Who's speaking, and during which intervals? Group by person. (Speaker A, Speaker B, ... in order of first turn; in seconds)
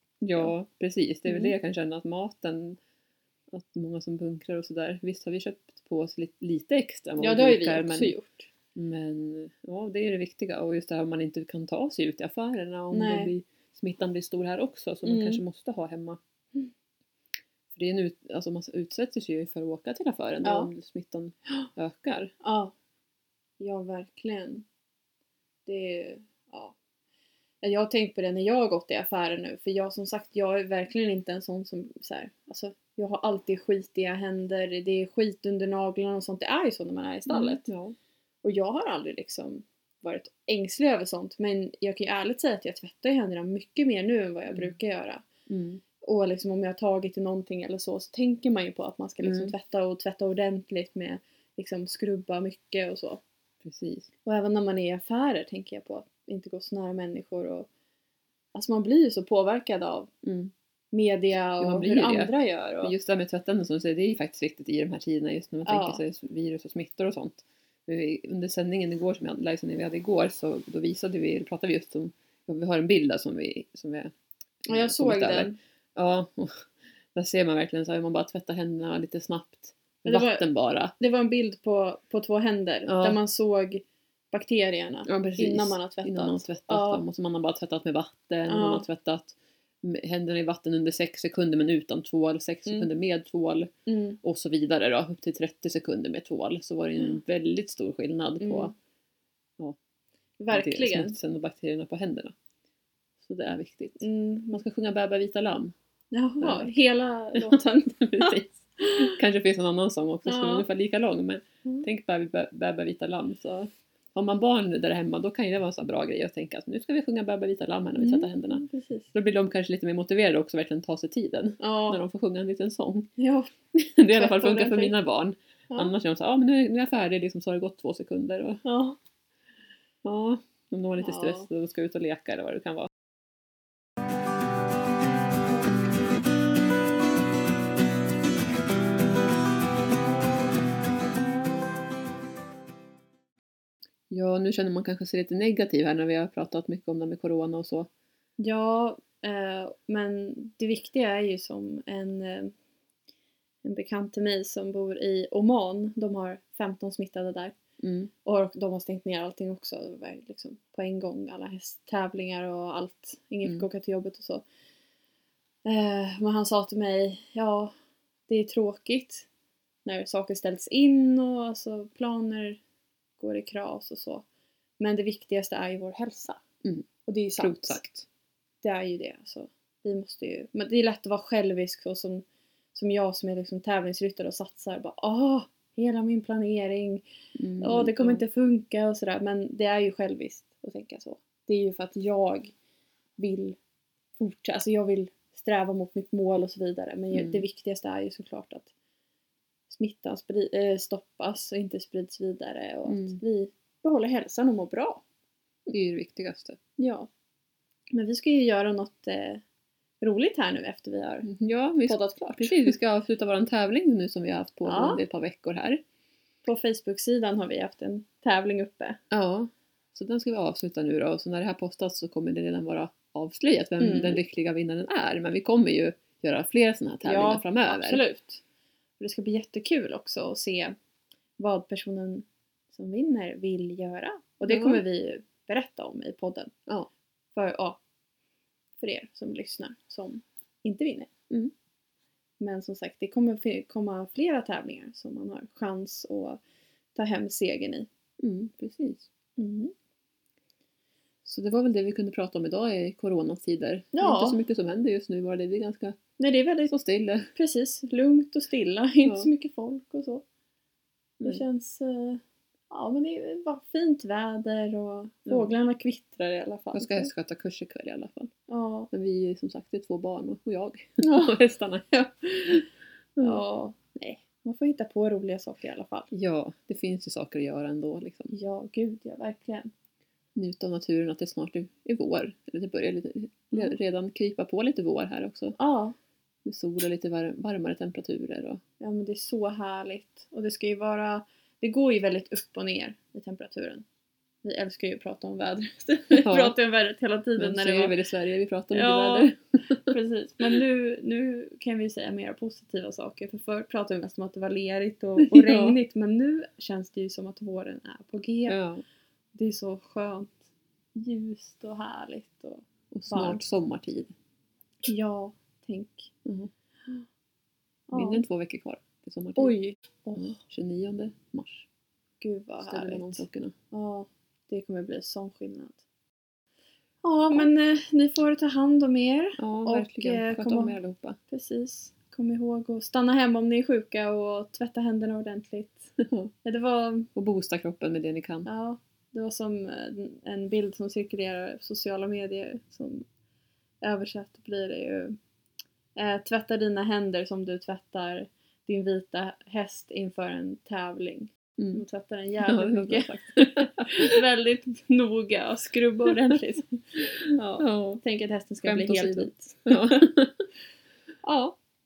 Speaker A: 0.2-2.8, 3.5-8.1, 8.8-16.2, 17.7-22.3, 37.3-38.0, 45.5-45.8, 49.2-49.5, 53.6-54.1, 60.2-60.5, 61.6-80.9, 82.9-83.2, 85.1-93.7, 94.2-98.7, 100.5-102.3, 103.2-105.7, 106.4-106.8, 107.3-123.1, 123.7-128.6, 130.0-132.9, 144.1-147.9, 157.8-158.1, 177.4-178.1, 187.4-188.2, 197.1-197.4, 202.9-203.2, 205.7-206.6, 211.2-215.8, 219.1-228.0, 234.5-234.8, 248.2-249.1, 251.2-256.0, 256.7-257.3, 259.0-259.3, 265.3-265.5, 266.8-268.3, 268.9-271.9, 273.1-273.4, 276.1-278.3, 280.4-285.6, 286.4-288.6, 296.1-296.6, 297.4-299.9, 305.2-305.8, 308.5-308.8, 312.9-314.1, 316.2-316.5, 317.9-319.6, 320.2-321.6, 322.6-323.5, 329.4-331.2, 336.0-336.3, 337.1-338.5, 351.6-351.8, 352.4-354.1, 357.6-358.0, 358.6-360.5
Speaker B: 1.3-1.5, 7.2-8.5, 12.9-13.3, 15.0-15.4, 20.4-20.7, 22.4-22.7, 23.6-24.6, 25.6-26.8, 27.6-37.7, 38.4-45.2, 46.0-53.2, 54.3-57.7, 58.5-60.1, 60.9-62.9, 65.6-66.0, 74.7-75.6, 80.0-87.0, 88.5-88.8, 93.9-94.2, 98.4-98.7, 100.4-101.1, 104.0-104.6, 106.1-109.2, 110.3-110.7, 118.0-119.1, 121.6-122.0, 123.2-123.5, 124.1-125.0, 128.6-129.0, 131.0-131.5, 148.4-152.5, 153.6-157.6, 158.2-164.4, 165.6-167.7, 168.3-169.3, 169.8-172.6, 173.2-174.2, 174.8-176.4, 177.1-177.8, 178.6-187.0, 187.6-192.5, 193.2-193.6, 194.2-198.7, 199.7-205.0, 206.8-207.1, 207.9-209.4, 210.0-211.3, 211.8-212.8, 214.6-215.0, 216.4-219.0, 223.8-224.2, 227.0-228.4, 229.0-230.8, 231.4-236.6, 237.3-237.8, 238.8-241.1, 242.4-246.4, 246.9-247.9, 249.4-249.7, 253.9-254.4, 256.2-256.7, 257.3-260.2, 261.2-267.1, 268.5-268.9, 271.0-271.4, 271.9-272.6, 273.2-276.1, 278.3-279.7, 285.6-286.0, 288.8-293.9, 294.4-298.0, 298.7-308.6, 309.3-313.4, 314.8-316.1, 317.9-318.2, 319.4-320.4, 322.2-325.8, 327.0-330.8, 331.3-337.1, 338.4-343.1, 343.8-345.1, 346.0-360.1, 361.2-361.6